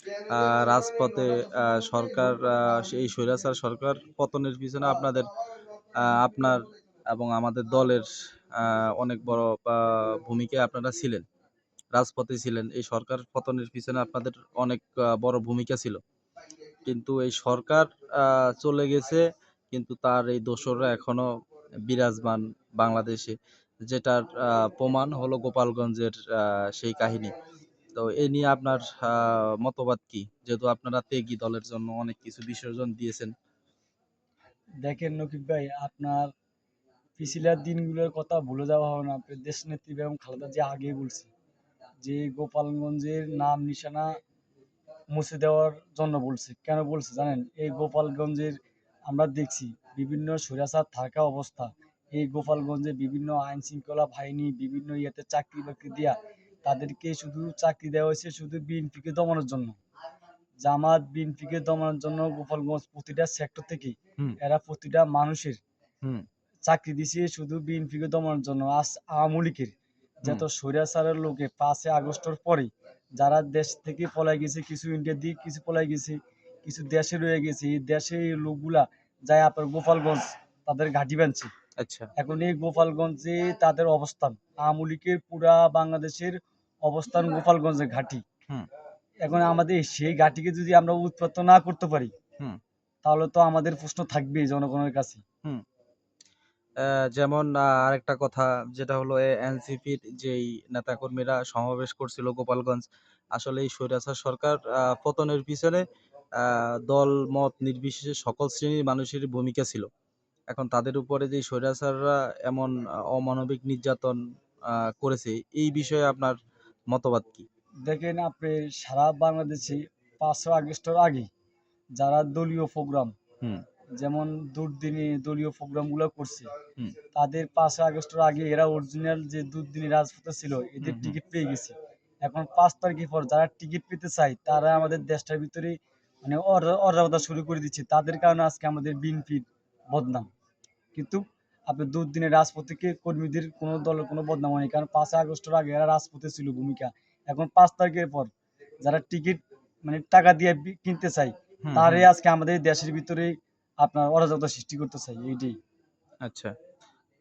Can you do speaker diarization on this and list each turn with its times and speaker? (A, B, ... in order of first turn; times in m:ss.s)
0:00.3-0:05.3 A
0:06.0-0:11.2 A
0:12.0-0:16.0 A
0:16.8-0:21.3 A
0:21.9-0:27.3 A
0:28.0-0:33.3 A
0:34.8-0:36.3 B
0:37.2-0:41.3 B
0:42.0-0:44.1 B
0:45.1-0:48.6 B
0:49.1-0:59.8 B
1:00.6-1:05.6 B
1:06.7-1:21.5 B
1:21.8-1:22.1 A
1:22.2-1:28.2 B
1:29.2-1:32.1 B
1:33.0-1:35.2 B
1:36.8-1:42.8 A
1:43.4-1:45.8 A
1:46.4-1:49.9 A
1:50.5-1:54.2 A
1:54.7-1:56.4 A
1:56.9-1:57.5 A
1:57.9-2:01.3 B
2:02.0-2:03.1 B
2:04.0-2:06.5 B
2:07.1-2:11.7 B
2:10.8-2:11.2 A
2:12.3-2:20.3 B
2:20.9-2:28.3 B
2:28.8-2:35.5 B
2:31.6-2:32.1 A
2:36.2-2:36.5 A